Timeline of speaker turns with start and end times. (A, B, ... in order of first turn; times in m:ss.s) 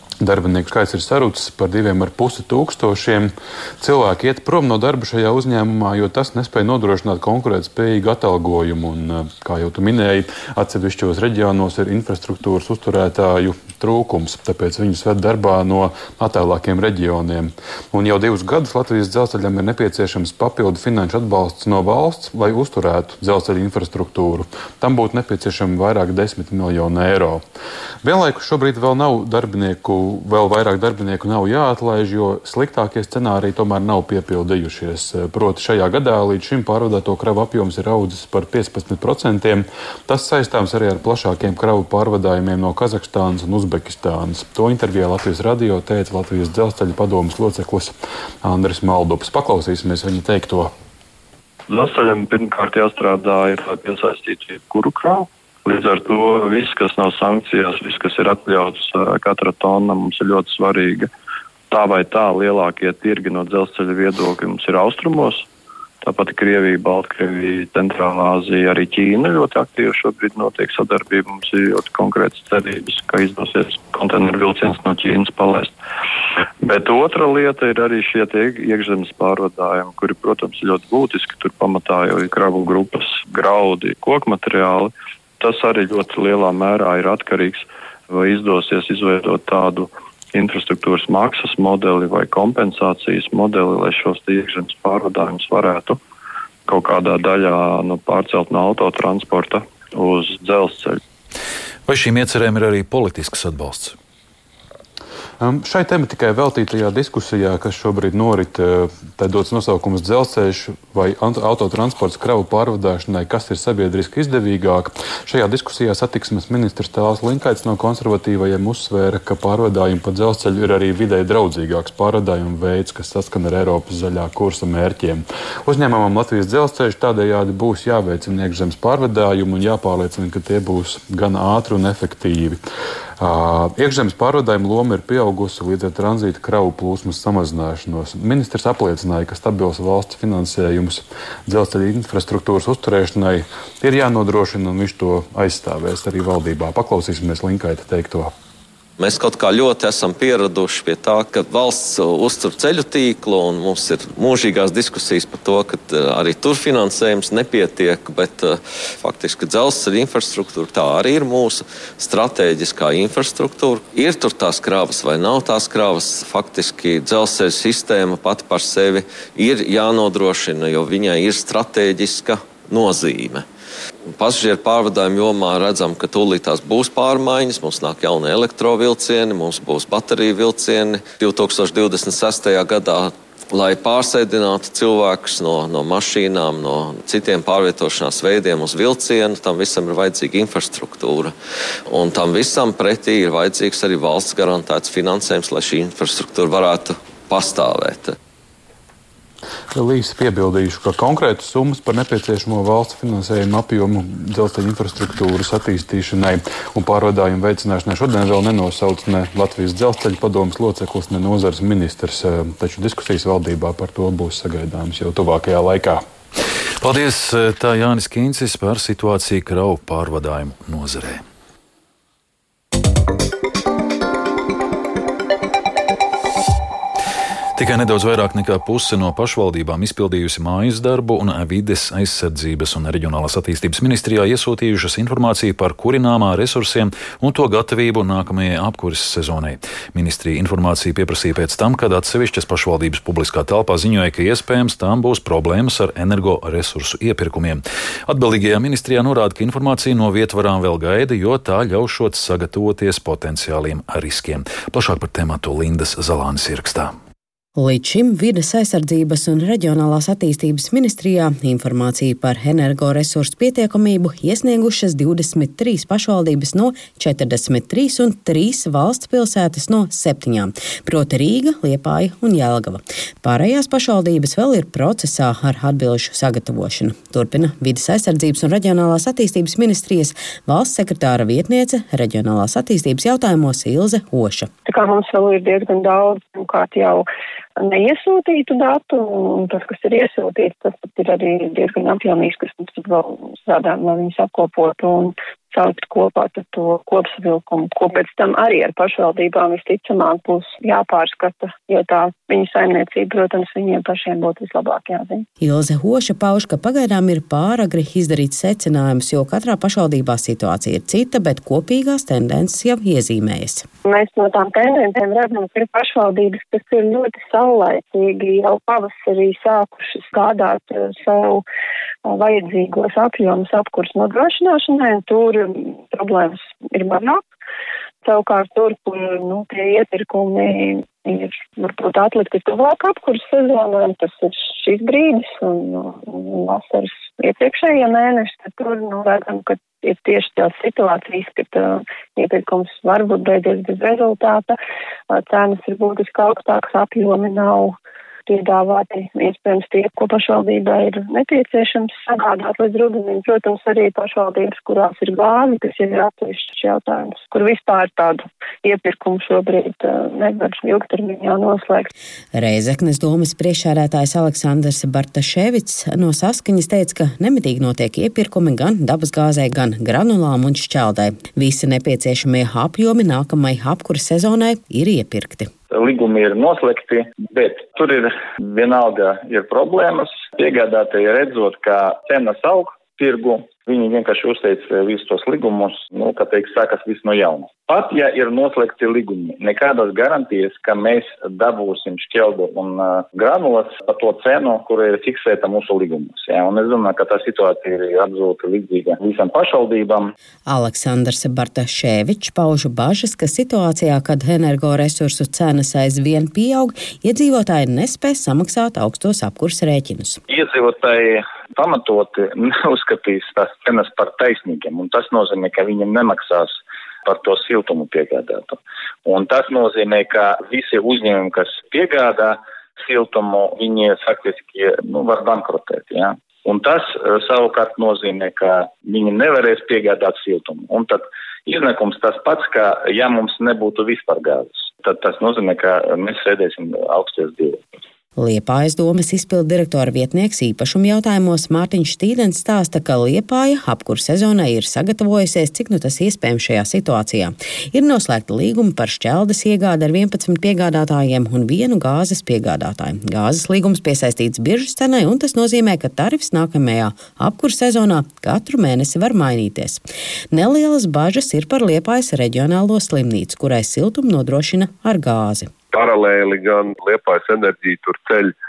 0:00.2-0:27.4 A
0:28.0-0:50.7 A
0:51.7-1:01.1 B
1:01.7-1:05.5 B
1:06.0-1:15.7 B
1:16.6-1:36.0 B
1:36.7-1:41.0 B
1:41.9-1:43.9 C
1:45.4-2:12.6 A
2:13.2-2:28.3 A
2:29.0-2:53.4 D
2:54.1-3:11.3 D
3:11.9-3:18.2 D
3:19.7-3:36.0 A
3:36.8-3:41.2 C
3:47.6-4:16.9 C
4:17.6-4:44.5 E
4:44.6-4:47.0 F
4:47.6-5:05.2 F
5:05.4-5:13.7 E
5:13.8-5:21.4 F
5:22.0-5:27.2 F
5:28.0-5:44.6 F
5:45.1-6:01.9 F
6:02.3-6:15.5 E
6:15.7-6:40.1 G
6:40.5-6:50.2 E
6:50.3-7:17.6 G
7:18.2-7:45.5 E
7:45.7-7:48.3 H